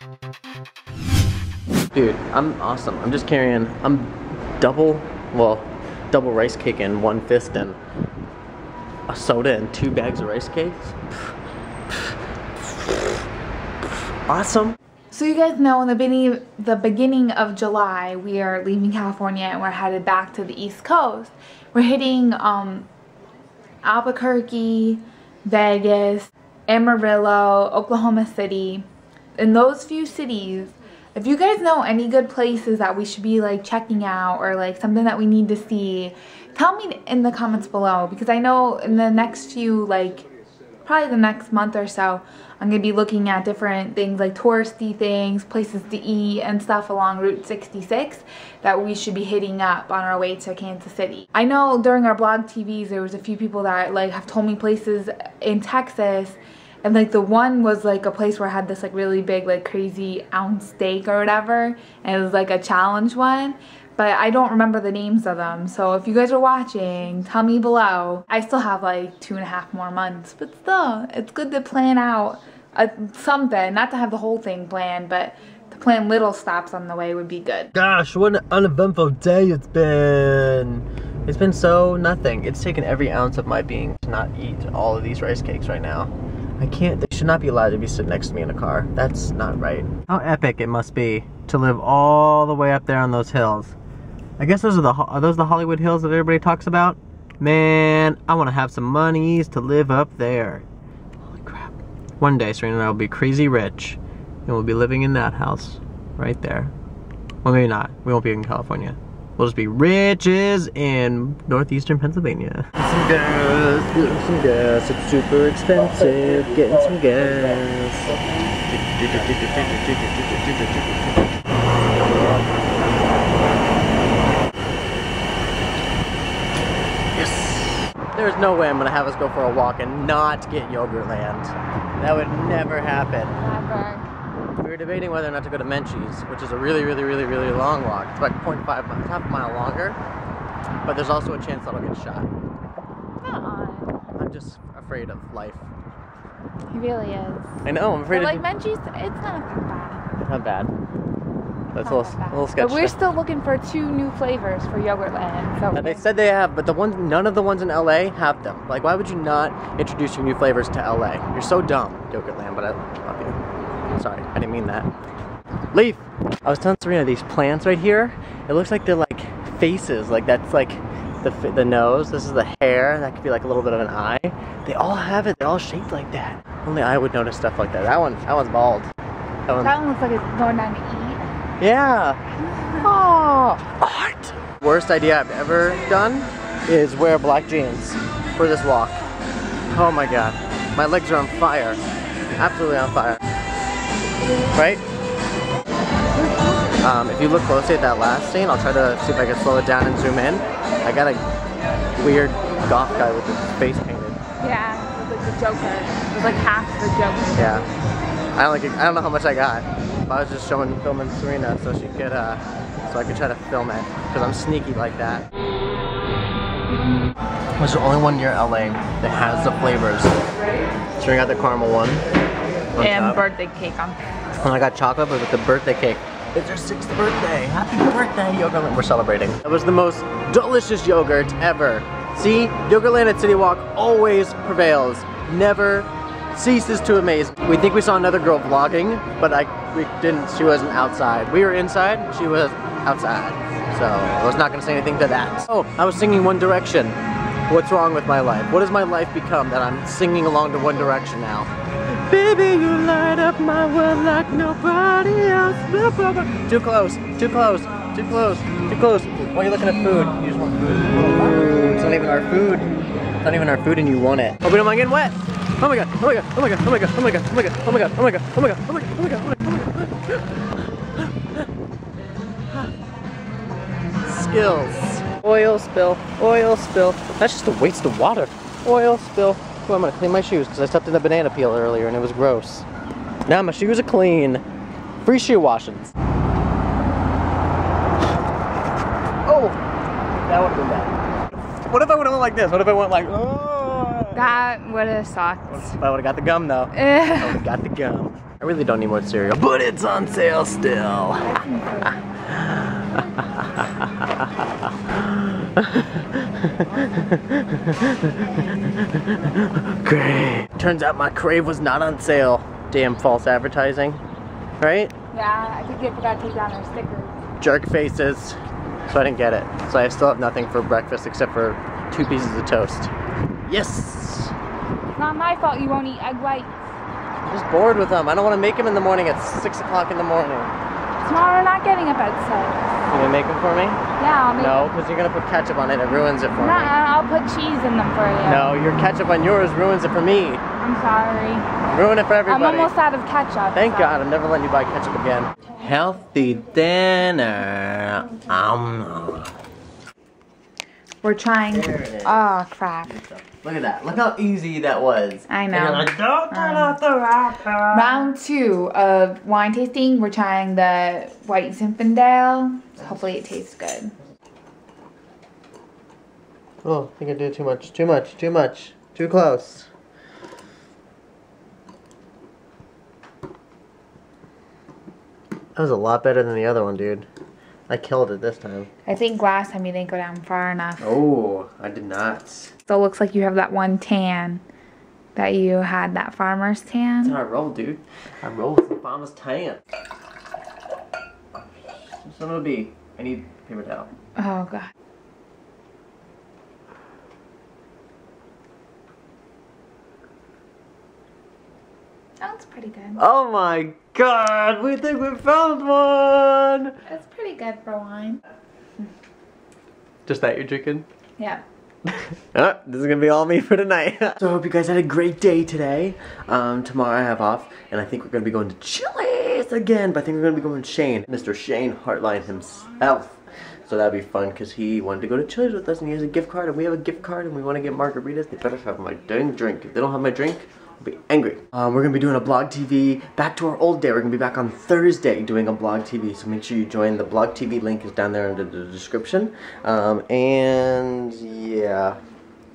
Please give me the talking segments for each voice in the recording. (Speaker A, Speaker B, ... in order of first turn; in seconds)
Speaker A: 1.9-7.8, 9.1-11.1, 11.9-13.1, 14.3-14.8, 77.7-93.7, 94.4-100.6, 101.2-106.7, 107.4-118.1, 118.7-121.1, 127.1-133.3, 134.6-140.0, 140.8-142.3, 144.1-145.7, 147.6-148.4, 150.2-150.7, 151.7-153.0, 155.7-163.4, 163.9-164.9, 165.7-178.9, 179.5-179.7, 181.6-182.2, 182.8-189.0, 189.7-191.8, 192.3-193.2, 194.5-194.8, 196.8-201.2, 202.0-204.2, 207.3-207.7, 208.3-215.2, 217.6-220.1, 221.0-222.0, 222.7-223.2, 224.4-262.7, 263.2-270.4, 271.0-271.4, 274.0-282.7, 283.3-284.4, 285.0-285.9, 289.2-289.6, 290.1-290.9, 291.6-294.4, 295.5-301.3, 301.9-304.2, 304.9-314.0, 314.6-314.9, 317.4-322.9, 323.4-324.3, 327.2-330.5, 332.9-333.8, 334.4-336.7, 338.2-340.4, 341.7-342.7, 343.5-349.3, 351.5-352.3, 352.9-358.1, 366.6-369.7, 375.6-377.1, 377.7-378.7, 380.8-382.5, 387.0-389.6, 391.3-393.9, 403.0-406.8, 410.1-410.9, 411.9-442.0
Speaker B: 15.1-22.9, 23.8-28.9, 29.4-40.3, 40.8-77.7, 133.4-134.1, 143.2-144.0, 146.7-150.1, 151.8-156.0, 179.6-181.2, 204.4-207.6, 222.8-224.0, 294.1-295.7, 296.7-297.4, 301.2-302.0, 315.1-317.1, 324.9-326.6, 331.0-332.6, 334.0-334.7, 336.4-338.5, 340.6-341.6, 342.3-344.1, 351.0-352.9, 355.3-356.8, 357.7-363.9, 378.9-381.0, 382.7-384.4, 385.1-387.2, 394.1-394.7, 402.2-403.0, 406.9-408.2, 411.2-411.4